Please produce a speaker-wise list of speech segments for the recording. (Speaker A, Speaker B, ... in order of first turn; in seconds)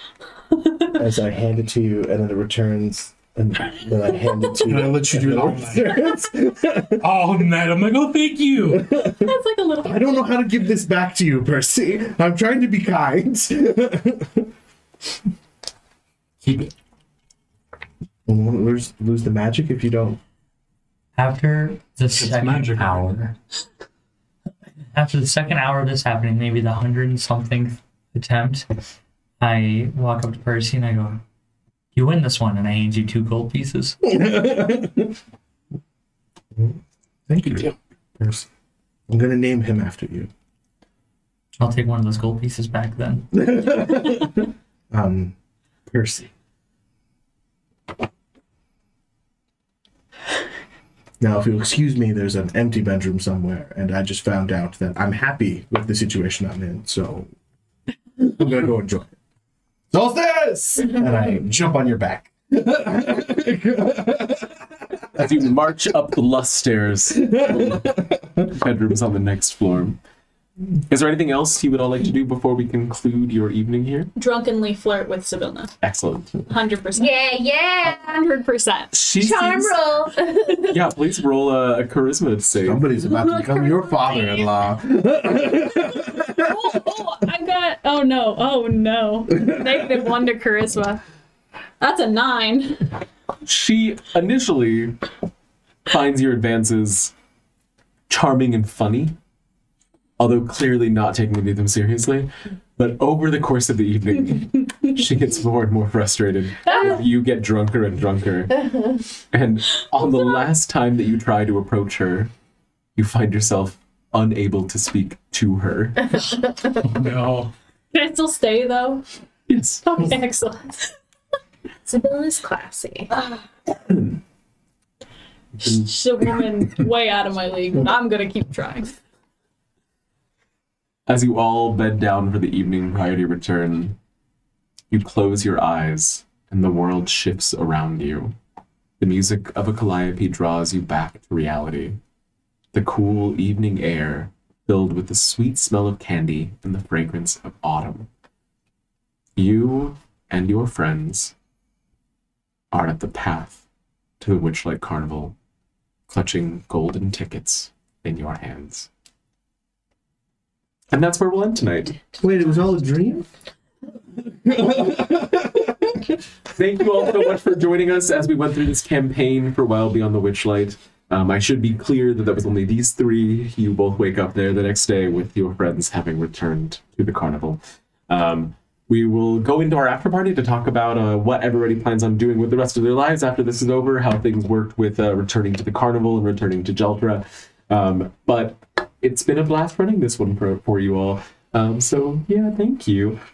Speaker A: 0.5-0.9, 8.9-10.5, 74.2-75.7, 76.5-77.1, 77.8-78.9, 83.1-84.5, 85.9-91.0, 91.8-92.9, 106.7-107.0, 110.0-110.4, 117.9-119.0, 119.8-121.0, 123.1-123.4, 125.6-128.9
Speaker B: 0.9-7.0, 8.7-14.5, 18.2-20.2, 34.0-35.1, 36.5-38.5, 39.1-40.3, 43.4-45.3, 45.9-46.3, 51.2-57.3, 58.2-59.1, 59.9-65.4, 67.3-68.5, 82.6-86.5, 162.2-163.3, 164.3-166.1
Speaker C: 4.6-6.0, 7.0-8.8, 16.4-16.7, 22.1-23.3, 116.8-117.5
Speaker D: 21.1-23.3, 24.9-28.6, 29.4-31.2, 31.9-34.0, 41.6-43.3
Speaker E: 65.1-67.8, 68.5-70.0, 70.9-74.1, 75.8-76.4, 78.9-79.8, 80.7-82.9, 93.4-95.0, 95.9-97.1, 98.1-99.2, 100.2-108.7, 109.3-112.3, 113.0-116.2, 119.5-119.8, 123.7-124.2, 125.6-125.9, 131.1-134.0, 134.9-138.3, 139.0-142.0, 142.7-148.1, 149.3-151.3, 152.7-153.6, 154.2-155.3, 156.1-158.9, 160.9-162.0, 166.5-193.2
Speaker F: 77.0-78.3, 79.1-80.8, 106.7-107.0, 108.7-109.0, 121.8-123.1